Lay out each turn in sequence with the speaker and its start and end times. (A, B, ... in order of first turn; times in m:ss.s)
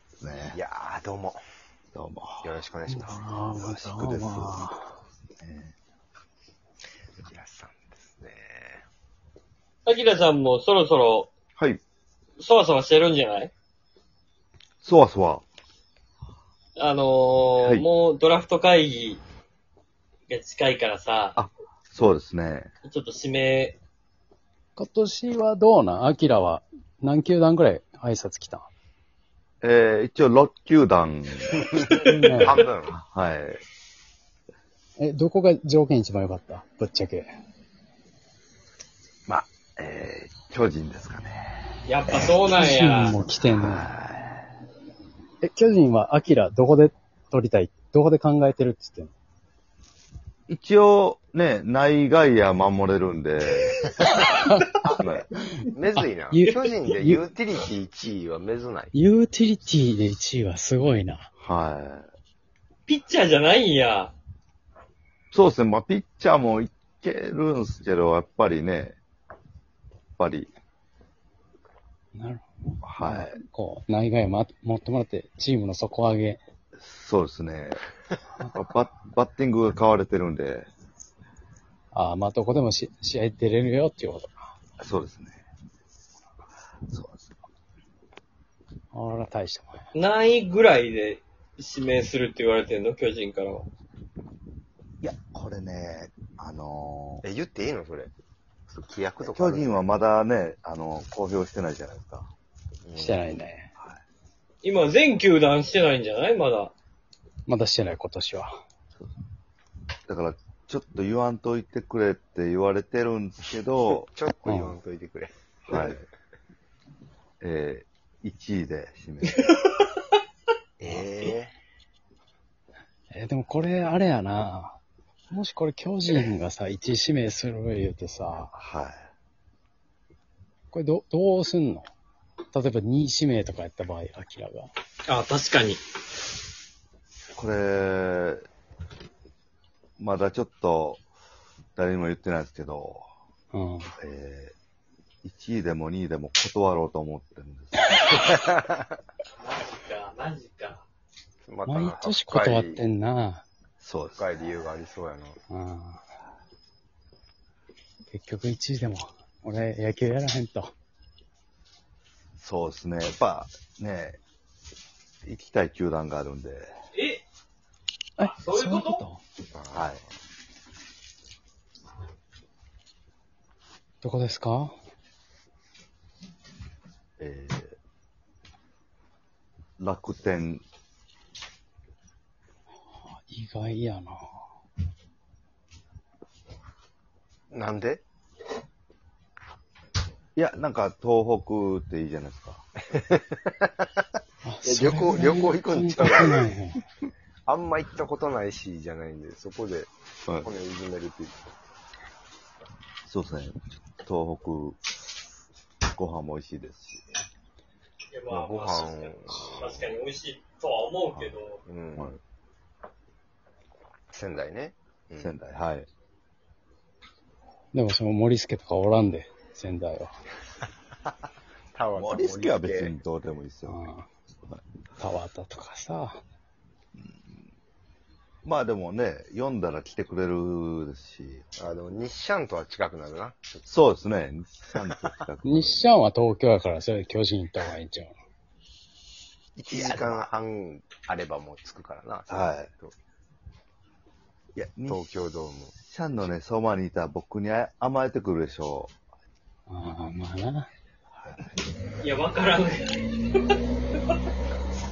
0:00.2-0:00.6 A
0:00.5-0:01.4 B
0:01.9-0:02.5 A
0:02.4-0:03.4 B
0:02.9-0:04.9 C
0:03.5-0:04.6 A
0:05.4-0:05.7 A
0:07.2-0:08.8 B
0:09.8-0:11.3 D
0:11.6-0:11.8 A
0:12.4-0:13.5 D
0:14.8-0:15.4 A
0:16.8-0:19.2 D
0:20.3-0:21.4 D
0:21.3-0:22.7 A
0:22.8-0:23.8 D
0:24.8-0:28.7 C
0:29.6-0:31.9 A
0:31.8-0:33.0 B
0:32.0-0:32.5 C
0:32.9-0:33.6 A
0:35.0-0:37.3 C
0:39.3-0:42.3 A
0:41.8-0:43.2 D
0:42.5-0:43.9 C
0:43.6-0:44.4 A
0:45.4-0:49.1 C
0:50.5-0:53.8 A
0:54.1-0:54.9 C
0:55.0-0:55.3 A
0:55.7-0:58.9 B
0:56.0-0:57.2 C
0:58.9-1:01.3 C
1:01.4-1:02.1 A
1:02.9-1:04.1 D
1:05.3-1:09.0 A
1:10.2-1:10.5 A
1:12.1-1:16.4 C
1:12.8-1:13.4 A
1:16.8-1:17.8 A
1:18.5-1:20.7 A
1:21.9-1:24.4 C
1:24.8-1:25.4 A
1:26.9-1:27.3 A
1:28.9-1:29.9 C
1:29.9-1:33.7 D
1:35.0-1:37.2 A
1:37.2-1:38.1 B
1:38.7-1:39.8 B
1:39.2-1:42.3 A
1:42.8-1:43.2 B
1:43.0-1:43.7 C
1:43.8-1:44.0 A
1:44.6-1:46.7 D
1:47.5-1:48.6 C
1:50.1-1:54.1 A
1:54.0-1:56.0 B
1:54.4-1:54.8 C
1:55.7-1:56.0 A
1:57.4-1:59.5 A
1:59.3-1:59.7 D
2:00.8-2:01.5 B
2:03.1-2:04.8 C
2:05.3-2:08.5 C
2:08.5-2:09.1 A
2:10.7-2:11.9 C
2:12.5-2:14.7 C
2:15.0-2:15.8 D
2:17.4-2:18.4 A
2:20.0-2:21.0 A
2:21.8-2:23.1 A
2:23.5-2:23.9 C
2:24.0-2:24.5 A
2:25.2-2:27.7 A
2:28.2-2:28.8 B
2:29.4-2:30.8 D
2:31.4-2:32.8 B
2:31.7-2:33.4 C
2:33.8-2:34.3 A
2:34.2-2:35.4 B
2:35.5-2:36.0 C
2:38.1-2:40.7 C
2:42.4-2:44.2 A
2:45.2-2:46.7 A
2:46.9-2:47.2 D
2:48.2-2:49.2 C
2:48.3-2:49.0 D
2:49.5-2:50.0 B
2:49.7-2:50.0 A
2:54.0-2:54.7 C
2:57.2-2:57.8 A
2:59.8-3:00.6 A
3:03.1-3:04.4 C
3:07.5-3:08.0 B
3:10.4-3:12.6 A
3:12.9-3:13.7 B
3:14.4-3:16.8 C
3:14.6-3:16.5 B
3:17.4-3:19.9 B
3:20.4-3:21.4 B
3:23.0-3:24.8 A
3:25.9-3:27.0 A
3:28.1-3:31.6 D
3:28.3-3:29.9 B
3:31.6-3:32.2 B
3:34.1-3:35.3 B
3:35.2-3:35.9 A
3:37.7-3:40.1 C
3:41.7-3:42.9 B
3:42.0-3:43.8 A
3:43.6-3:44.0 C
3:45.0-3:46.2 C
3:47.0-3:47.4 A
3:48.4-3:51.4 A
3:51.6-3:53.6 B
3:53.6-3:55.8 A
3:55.4-3:58.1 C
3:59.6-4:02.9 B
3:59.7-4:00.3 A
4:02.3-4:02.7 A
4:04.5-4:05.0 A
4:04.9-4:05.8 B
4:05.8-4:08.9 A
4:09.7-4:10.7 C
4:12.0-4:13.5 D